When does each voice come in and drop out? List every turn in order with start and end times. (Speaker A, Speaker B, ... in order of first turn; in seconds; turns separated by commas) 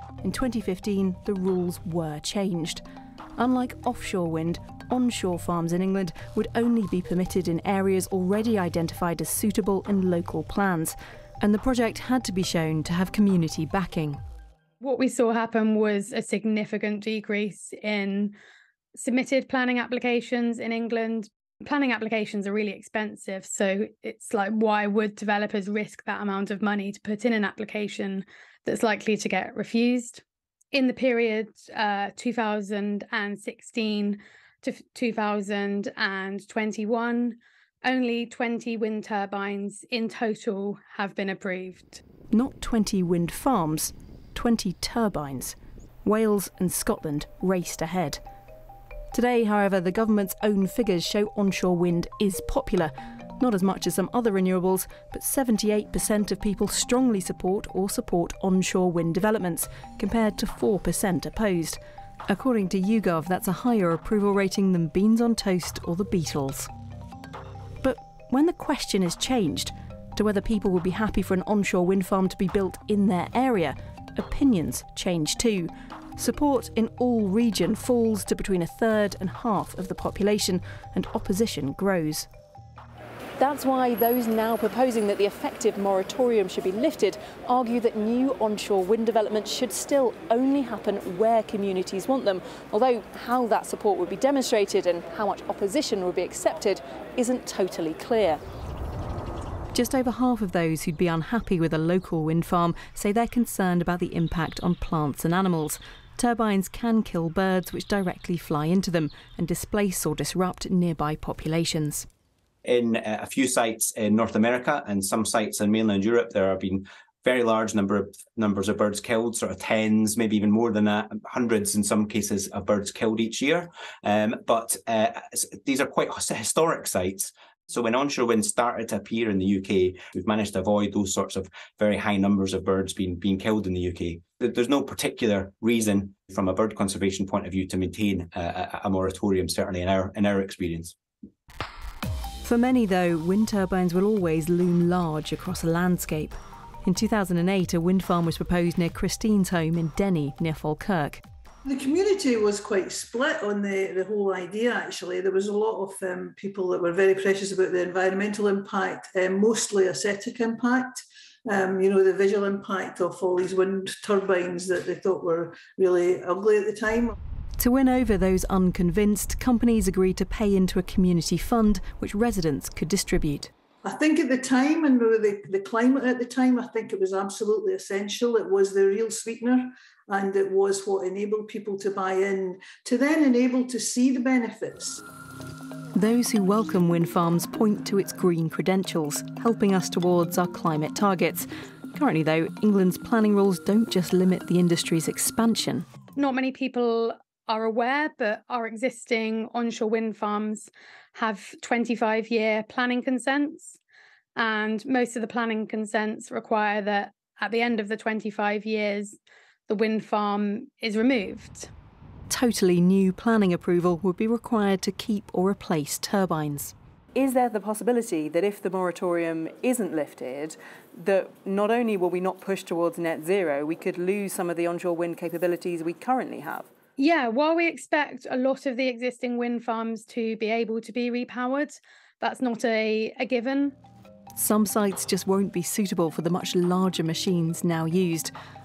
Speaker A: 0.2-2.8, Speaker A: 3.4-14.2, Speaker B: 14.8-18.4, Speaker B: 18.9-30.2, Speaker B: 30.7-42.0, Speaker A: 42.3-48.2, Speaker A: 49.1-66.7, Speaker A: 67.8-82.3, Speaker A: 83.4-98.4, Speaker A: 99.7-112.1, Speaker C: 112.6-140.9, Speaker A: 142.4-151.2, Speaker D: 151.6-167.1, Speaker A: 167.6-173.5, Speaker D: 173.8-185.0, Speaker A: 185.9-195.8, Speaker B: 196.2-203.8, Speaker B: 204.3-211.7, Speaker A: 212.3-226.7, Speaker B: 227.0-233.8, Speaker A: 234.3-238.3